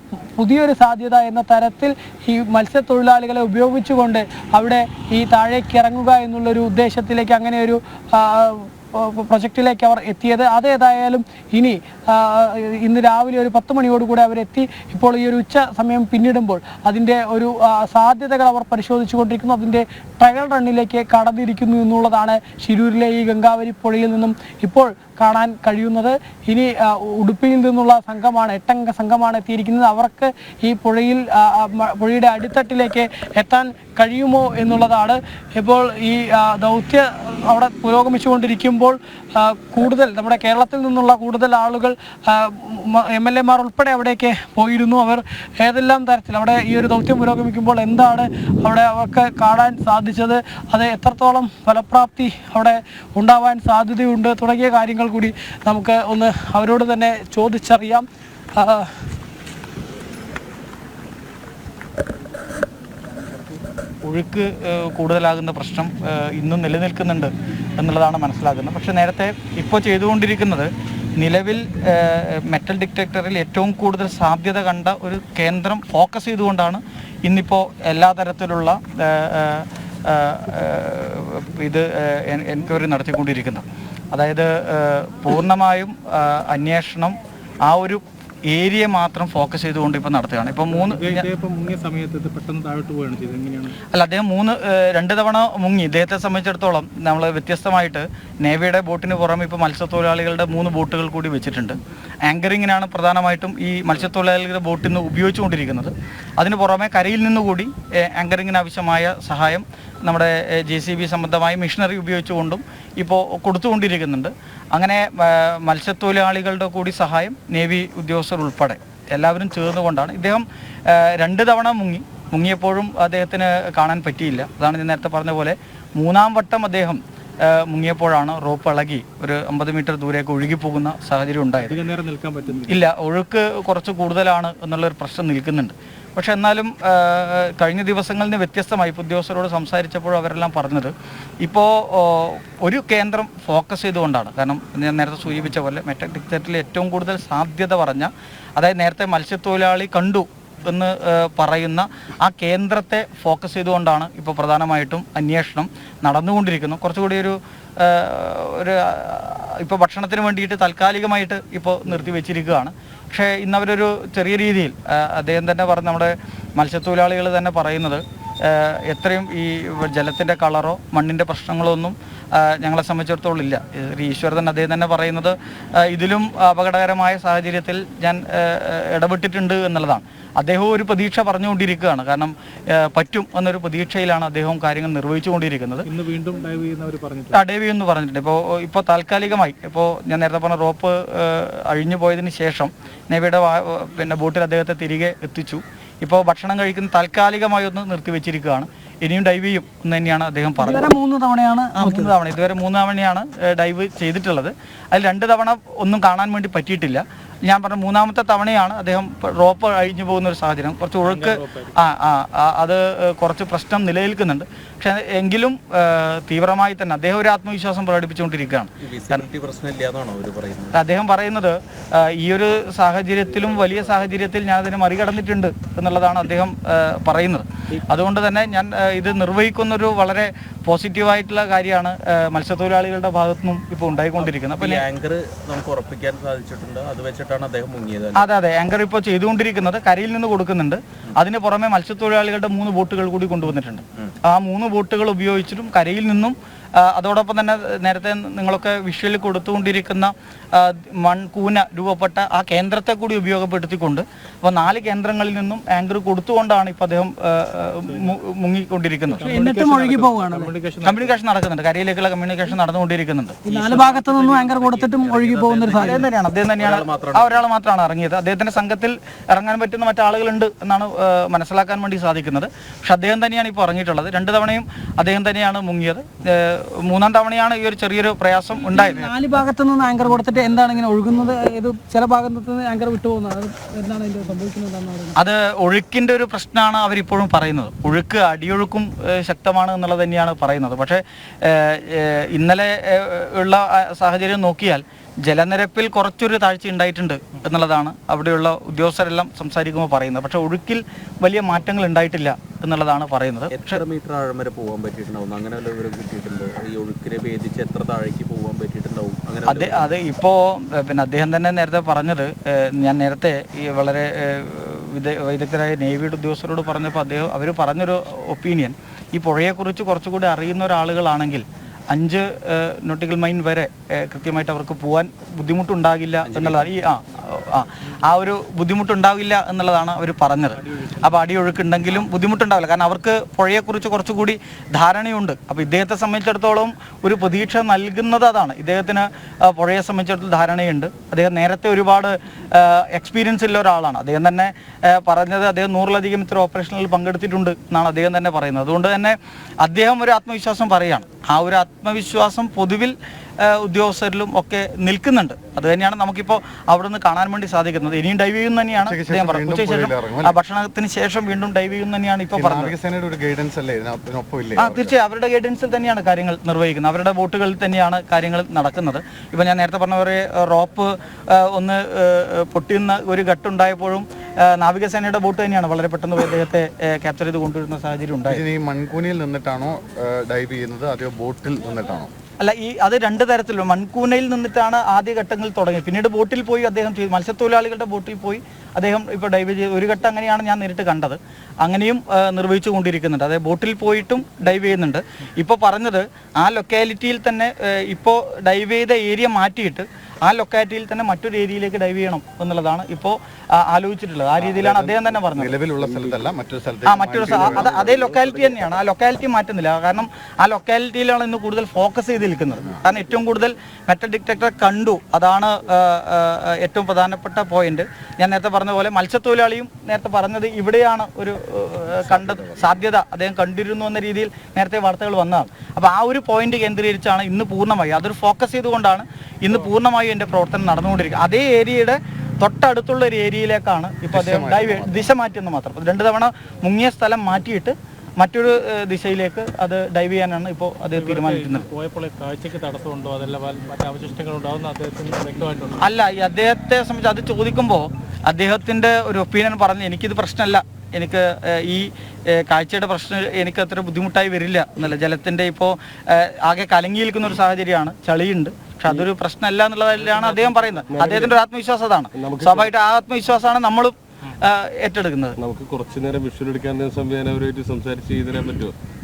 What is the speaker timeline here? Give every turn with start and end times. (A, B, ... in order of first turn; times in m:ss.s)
0:00.4-0:58.9 A
1:04.0-1:31.3 B
1:30.7-1:33.8 C
1:33.9-2:11.8 B
2:11.6-2:12.8 C
2:12.7-2:20.9 B
2:21.4-3:05.9 B
3:05.8-3:07.4 C
3:07.3-3:20.9 B
3:20.6-3:22.1 A
3:21.8-3:39.2 B
3:31.0-3:31.7 C
3:38.8-3:40.8 D
3:40.7-3:54.9 B
3:54.2-3:58.3 D
3:58.2-4:19.3 B
4:19.2-4:20.5 A
4:19.2-4:21.2 C
4:20.8-4:23.4 B
4:23.4-4:26.0 A
4:23.5-4:27.5 D
4:25.7-4:39.1 B
4:38.6-4:45.2 A
4:45.2-5:03.8 B
5:03.5-5:09.9 D
5:09.5-6:02.8 B
5:26.2-5:26.7 D
5:30.7-5:31.1 C
5:58.8-6:00.4 E
6:02.4-6:05.0 E
6:04.6-6:18.4 B
6:18.3-6:22.1 E
6:22.4-6:45.6 B
6:44.5-6:47.9 E
6:45.1-6:45.4 D
6:46.8-7:21.7 B
6:47.6-6:48.6 D
7:02.0-7:02.7 E
7:14.1-7:15.1 E
7:20.9-7:25.9 C
7:25.8-7:45.4 B
7:40.2-7:40.6 C
7:40.9-7:41.4 F
7:42.2-7:42.7 F
7:45.4-7:48.8 F